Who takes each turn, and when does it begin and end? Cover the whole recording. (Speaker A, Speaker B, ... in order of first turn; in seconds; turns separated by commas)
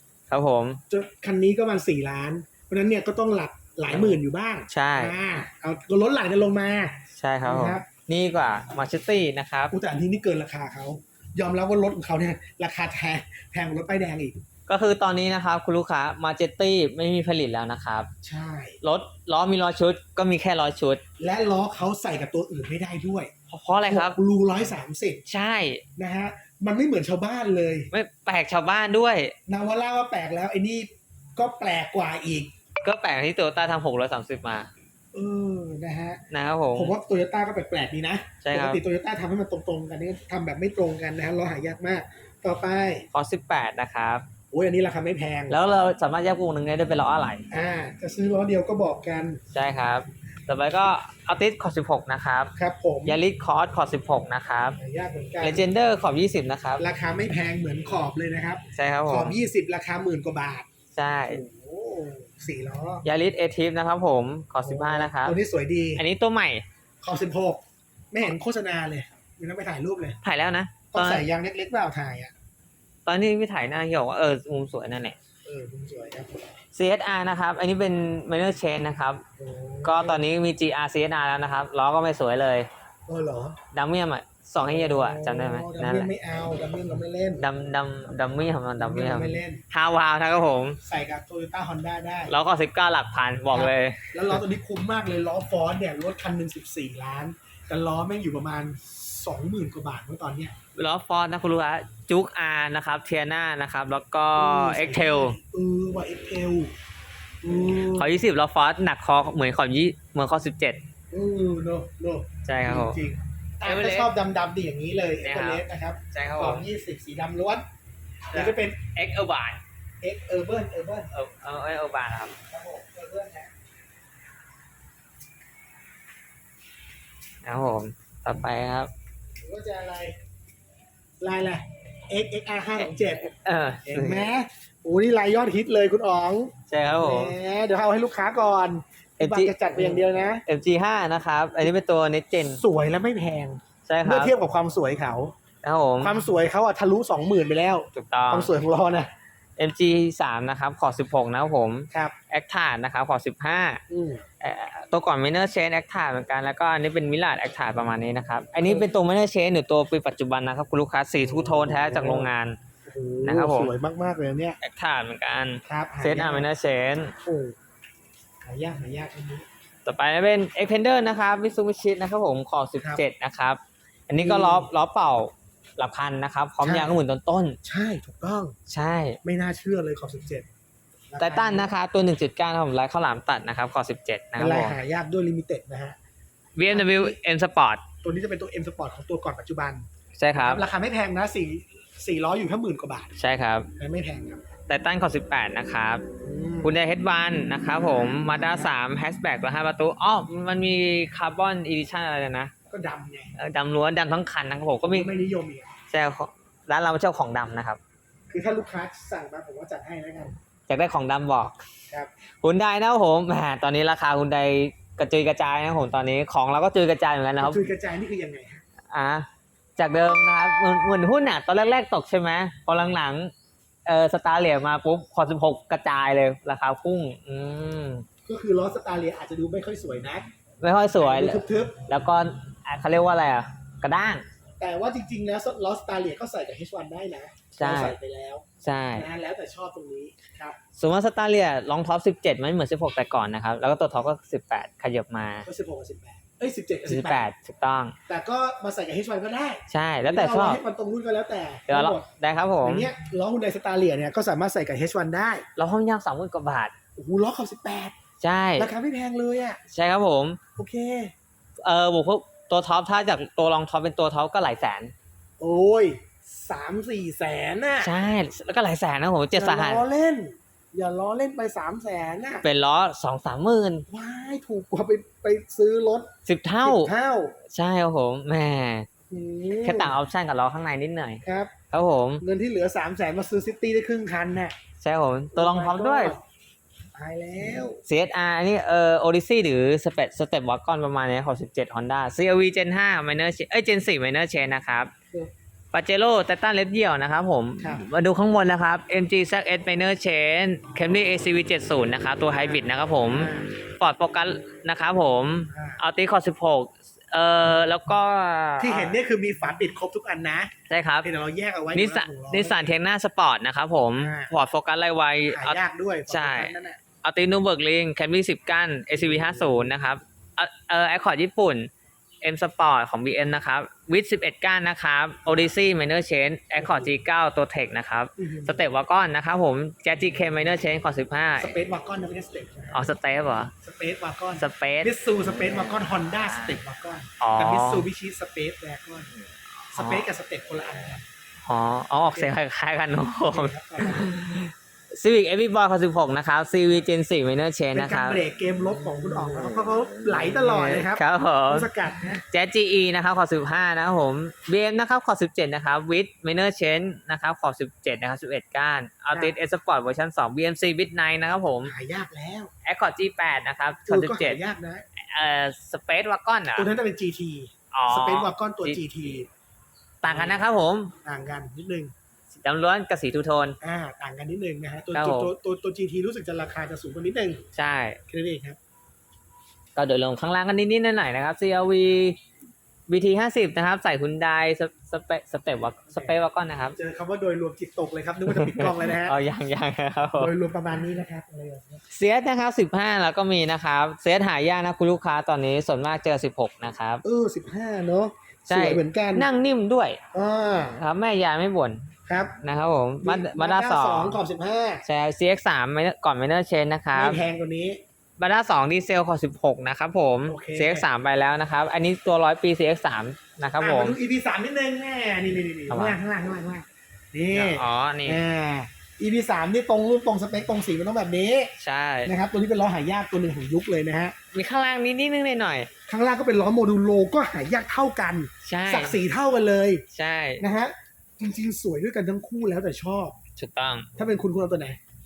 Speaker A: 0.3-0.8, Speaker B: 0.9-7.9, Speaker A: 3.9-5.2, Speaker A: 7.1-9.7, Speaker B: 9.7-14.4, Speaker A: 14.7-18.1, Speaker B: 18.2-18.8, Speaker A: 18.8-21.0, Speaker B: 21.2-23.3, Speaker A: 23.5-24.2, Speaker B: 23.9-25.2, Speaker A: 25.3-25.8, Speaker B: 26.0-27.9, Speaker A: 27.9-29.4, Speaker B: 29.5-32.5, Speaker A: 32.8-34.7, Speaker B: 35.1-36.2, Speaker A: 36.3-37.0, Speaker B: 36.7-43.1, Speaker A: 38.4-38.8, Speaker A: 43.1-44.3, Speaker B: 44.5-45.5, Speaker A: 45.5-47.5, Speaker B: 47.5-49.4, Speaker A: 49.5-52.5, Speaker B: 52.5-53.2, Speaker A: 53.1-54.8, Speaker B: 54.8-55.6, Speaker A: 55.4-56.9, Speaker B: 56.8-60.7, Speaker A: 58.7-59.4, Speaker A: 60.9-61.4, Speaker B: 61.3-63.0, Speaker A: 63.0-65.4, Speaker B: 64.6-66.0, Speaker A: 66.0-66.7, Speaker B: 67.0-70.2, Speaker A: 70.2-71.2, Speaker B: 70.9-72.3, Speaker A: 73.1-75.2, Speaker B: 75.5-76.4, Speaker A: 76.7-79.2, Speaker B: 79.4-80.2, Speaker A: 79.8-82.7, Speaker B: 83.1-83.6, Speaker A: 83.7-86.1, Speaker B: 84.6-87.5, Speaker A: 87.4-90.8, Speaker B: 88.8-89.6, Speaker B: 90.8-92.3, Speaker A: 92.3-94.4, Speaker B: 93.5-100.5, Speaker A: 100.8-105.4, Speaker B: 104.4-106.7, Speaker B: 107.4-108.1, Speaker A: 107.9-110.8, Speaker B: 111.1-117.6, Speaker A: 112.5-113.0, Speaker A: 113.6-114.1, Speaker A: 115.2-116.7, Speaker B: 118.3-118.8, Speaker A: 118.3-119.6, Speaker B: 120.0-121.1, Speaker A: 121.1-122.3, Speaker B: 122.5-123.5, Speaker A: 127.4-128.9, Speaker B: 129.4-130.2, Speaker B: 131.2-133.3, Speaker A: 132.8-134.3, Speaker B: 133.9-140.4, Speaker A: 136.7-137.3, Speaker A: 139.2-142.6, Speaker B: 142.6-145.3, Speaker A: 143.8-144.3, Speaker A: 145.6-146.1, Speaker B: 146.0-149.1, Speaker A: 147.9-148.5, Speaker A: 149.6-153.8, Speaker B: 153.9-154.2, Speaker A: 154.4-162.6, Speaker B: 161.2-162.3, Speaker B: 162.8-164.6, Speaker A: 163.2-163.7, Speaker A: 164.6-167.1, Speaker B: 165.7-166.5, Speaker B: 167.2-167.6, Speaker B: 168.4-169.5, Speaker A: 169.8-177.6, Speaker B: 174.2-174.7, Speaker B: 176.6-176.9, Speaker B: 177.6-178.6, Speaker A: 178.7-179.2, Speaker B: 179.2-180.5, Speaker B: 181.1-181.7, Speaker A: 181.2-184.8, Speaker B: 184.4-186.0, Speaker A: 186.6-187.8, Speaker B: 186.7-187.2, Speaker B: 188.0-193.1, Speaker A: 190.2-190.7, Speaker A: 193.2-193.7, Speaker B: 193.8-194.4, Speaker A: 194.7-196.1, Speaker B: 196.2-196.7, Speaker A: 196.6-202.5, Speaker B: 197.7-198.7, Speaker B: 202.7-203.3, Speaker A: 203.4-205.1, Speaker B: 204.8-205.7, Speaker A: 205.9-207.8, Speaker B: 208.3-210.4, Speaker A: 210.7-211.6, Speaker A: 212.4-217.6, Speaker B: 217.4-218.6, Speaker A: 218.9-223.3, Speaker A: 223.9-228.1, Speaker B: 228.3-230.3, Speaker A: 230.6-234.2, Speaker B: 231.0-231.8, Speaker B: 234.6-240.6, Speaker A: 237.5-238.0, Speaker A: 238.6-239.1, Speaker A: 240.8-245.5, Speaker B: 245.4-247.3, Speaker A: 246.9-248.0, Speaker B: 248.1-252.1, Speaker A: 249.7-250.6, Speaker A: 251.7-252.9, Speaker B: 252.6-255.4, Speaker A: 255.6-256.7, Speaker B: 257.0-257.9, Speaker A: 258.2-258.7, Speaker B: 258.6-259.6, Speaker A: 259.7-260.4, Speaker B: 260.6-261.1, Speaker A: 261.6-264.9, Speaker B: 265.4-267.9, Speaker A: 267.8-269.8, Speaker B: 269.3-272.4, Speaker A: 272.4-273.9, Speaker B: 273.9-276.1, Speaker A: 276.3-276.9, Speaker B: 276.6-277.4, Speaker A: 277.5-278.9, Speaker B: 279.1-279.9, Speaker A: 279.6-282.2, Speaker B: 281.2-281.5, Speaker B: 282.2-284.6, Speaker A: 284.8-286.1, Speaker B: 285.4-286.2, Speaker B: 286.9-287.8, Speaker A: 287.9-294.9, Speaker A: 295.7-309.0, Speaker B: 302.3-303.5, Speaker B: 305.5-305.8, Speaker B: 308.6-310.5, Speaker A: 310.7-311.1, Speaker B: 311.0-312.7, Speaker A: 311.7-321.7, Speaker B: 314.0-314.3, Speaker B: 315.3-316.8, Speaker B: 319.0-319.7, Speaker A: 322.2-331.6, Speaker B: 326.6-326.9, Speaker B: 328.2-328.6, Speaker B: 331.4-332.8, Speaker A: 332.7-333.5, Speaker B: 333.6-339.1, Speaker A: 334.4-334.9, Speaker A: 337.2-337.9, Speaker B: 339.7-341.0, Speaker A: 339.8-340.1, Speaker A: 341.4-348.2, Speaker B: 343.3-344.1, Speaker B: 347.7-352.2, Speaker A: 349.2-349.6, Speaker A: 350.1-351.7, Speaker A: 352.3-361.7, Speaker B: 361.6-362.5, Speaker A: 362.6-364.4, Speaker B: 363.9-364.9, Speaker A: 365.0-366.7, Speaker B: 366.6-369.3, Speaker A: 367.7-368.8, Speaker A: 370.0-370.9, Speaker B: 370.1-370.4, Speaker B: 371.1-371.9, Speaker A: 372.3-373.6, Speaker B: 373.6-377.4, Speaker A: 374.9-375.3, Speaker A: 377.5-378.0, Speaker B: 378.1-378.6, Speaker A: 379.8-382.2, Speaker A: 382.9-386.8, Speaker B: 386.8-389.2, Speaker A: 388.2-390.3, Speaker B: 390.2-391.8, Speaker A: 391.9-397.0, Speaker B: 397.0-399.3, Speaker A: 398.5-400.0, Speaker B: 400.1-400.8, Speaker A: 400.8-404.2, Speaker B: 402.1-402.3, Speaker B: 403.0-404.8, Speaker A: 404.9-407.2, Speaker B: 406.9-407.8, Speaker A: 408.2-414.0, Speaker B: 410.3-410.9, Speaker B: 413.6-421.5, Speaker A: 415.7-416.0, Speaker A: 417.3-418.2, Speaker A: 421.6-422.1, Speaker B: 422.1-424.1, Speaker A: 424.3-425.7, Speaker B: 425.9-429.8, Speaker A: 428.4-429.0, Speaker A: 429.9-430.4, Speaker B: 430.4-433.2, Speaker A: 433.4-433.9, Speaker B: 434.0-434.8